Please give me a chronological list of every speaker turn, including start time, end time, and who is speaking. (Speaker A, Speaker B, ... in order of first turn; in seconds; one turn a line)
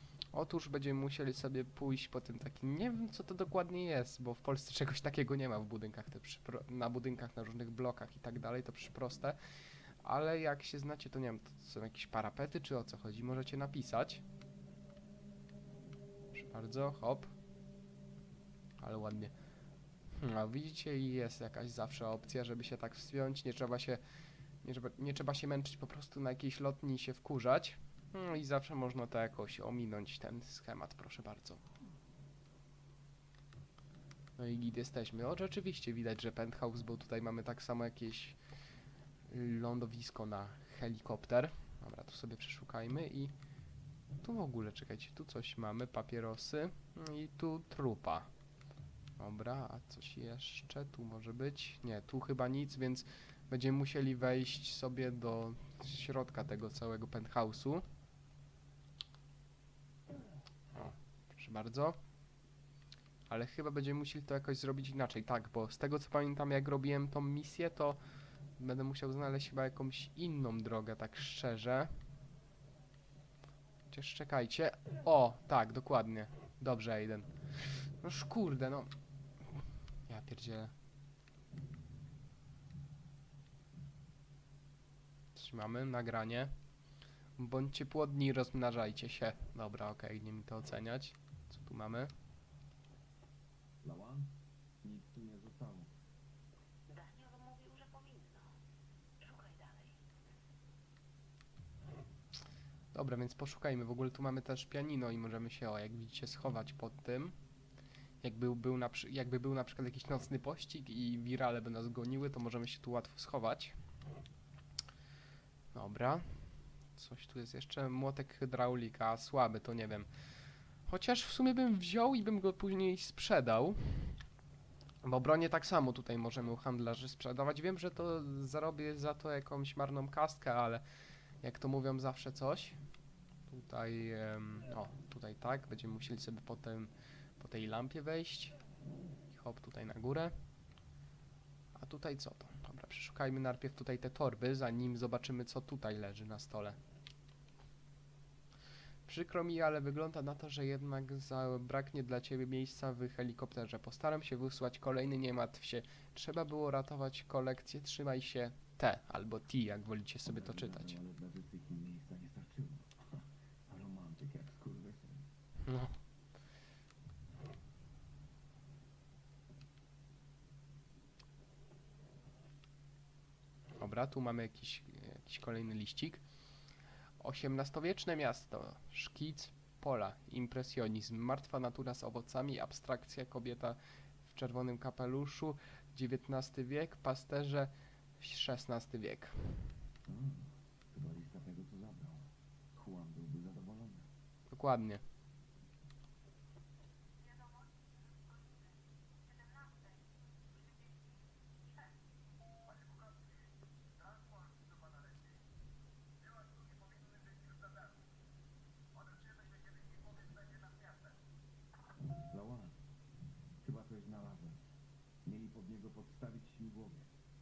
Speaker A: 0.3-9.4
Speaker A: 10.0-14.2
Speaker A: 16.3-17.3
Speaker A: 18.8-19.3
Speaker A: 20.1-24.0
Speaker A: 24.6-31.6
Speaker A: 34.4-38.4
Speaker A: 39.3-43.3
Speaker A: 44.2-48.3
Speaker A: 49.2-57.9
Speaker A: 60.7-62.0
Speaker A: 63.3-68.0
Speaker A: 68.6-71.9
Speaker A: 73.9-77.3
Speaker A: 78.0-78.9
Speaker A: 80.1-80.7
Speaker A: 85.3-86.5
Speaker A: 87.4-92.1
Speaker B: 93.8-94.3
Speaker B: 94.8-95.9
Speaker C: 96.9-98.5
Speaker C: 99.2-100.0
Speaker A: 102.9-107.3
Speaker A: 108.2-113.8
Speaker A: 115.7-116.4
Speaker A: 117.0-120.1
Speaker A: 120.9-124.1
Speaker A: 125.0-130.8
Speaker A: 131.4-132.8
Speaker A: 133.5-138.6
Speaker A: 139.3-140.3
Speaker A: 141.8-146.8
Speaker A: 149.1-161.0
Speaker B: 160.3-165.3
Speaker A: 165.7-165.9
Speaker A: 173.8-176.2
Speaker A: 177.2-189.6
Speaker B: 190.1-194.1
Speaker A: 194.5-195.0
Speaker B: 202.7-203.1
Speaker B: 204.0-205.2
Speaker B: 206.2-208.0
Speaker B: 208.9-211.2
Speaker B: 212.3-212.7
Speaker B: 213.6-214.6
Speaker B: 215.2-217.1